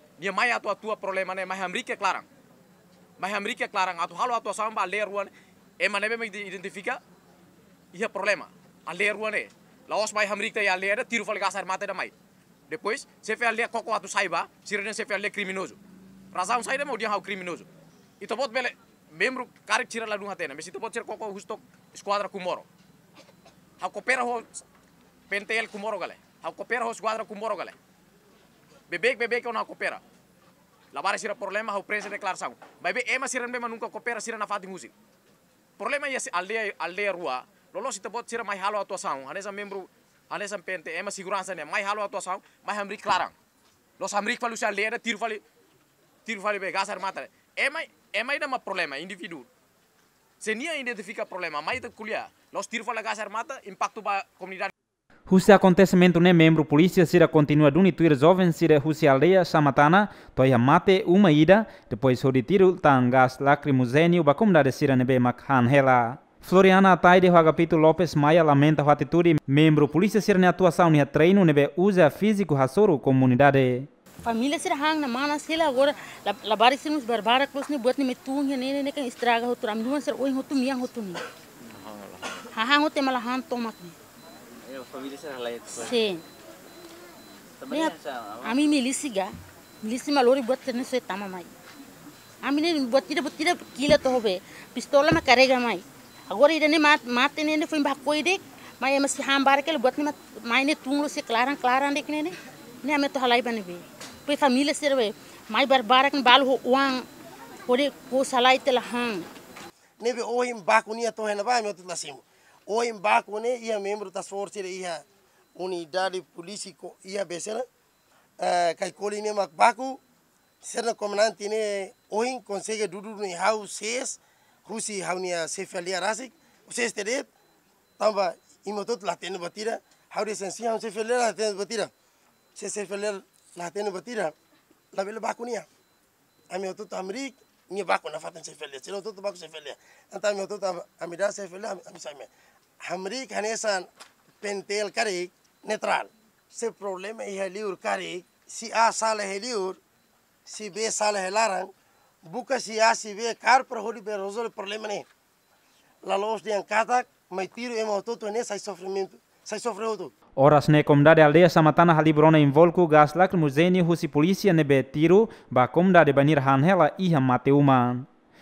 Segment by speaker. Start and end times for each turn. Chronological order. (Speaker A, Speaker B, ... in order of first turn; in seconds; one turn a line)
Speaker A: 0.2-2.3
Speaker A: 3.2-7.0
Speaker A: 7.9-12.1
Speaker A: 12.7-15.8
Speaker A: 16.3-17.7
Speaker A: 18.2-22.7
Speaker A: 23.8-24.6
Speaker A: 25.3-27.8
Speaker A: 28.9-30.0
Speaker A: 30.9-34.9
Speaker A: 35.8-43.4
Speaker A: 44.0-45.4
Speaker A: 46.3-49.5
Speaker A: 50.4-54.7
Speaker B: 55.3-73.9
Speaker C: 74.2-81.2
Speaker C: 82.5-84.0
Speaker D: 84.6-86.0
Speaker C: 85.9-86.2
Speaker D: 87.6-88.8
Speaker C: 87.7-89.3
Speaker C: 89.8-91.5
Speaker C: 92.4-98.4
Speaker C: 99.2-102.3
Speaker C: 102.8-106.8
Speaker C: 107.7-109.2
Speaker E: 110.0-115.0
Speaker E: 115.6-117.7
Speaker E: 118.4-120.0
Speaker E: 120.6-127.3
Speaker E: 128.0-131.9
Speaker E: 132.6-134.3
Speaker E: 134.9-135.7
Speaker E: 136.5-142.3
Speaker E: 142.8-143.9
Speaker E: 144.4-149.8
Speaker E: 150.5-151.7
Speaker E: 152.2-155.1
Speaker E: 156.0-160.1
Speaker B: 160.4-168.1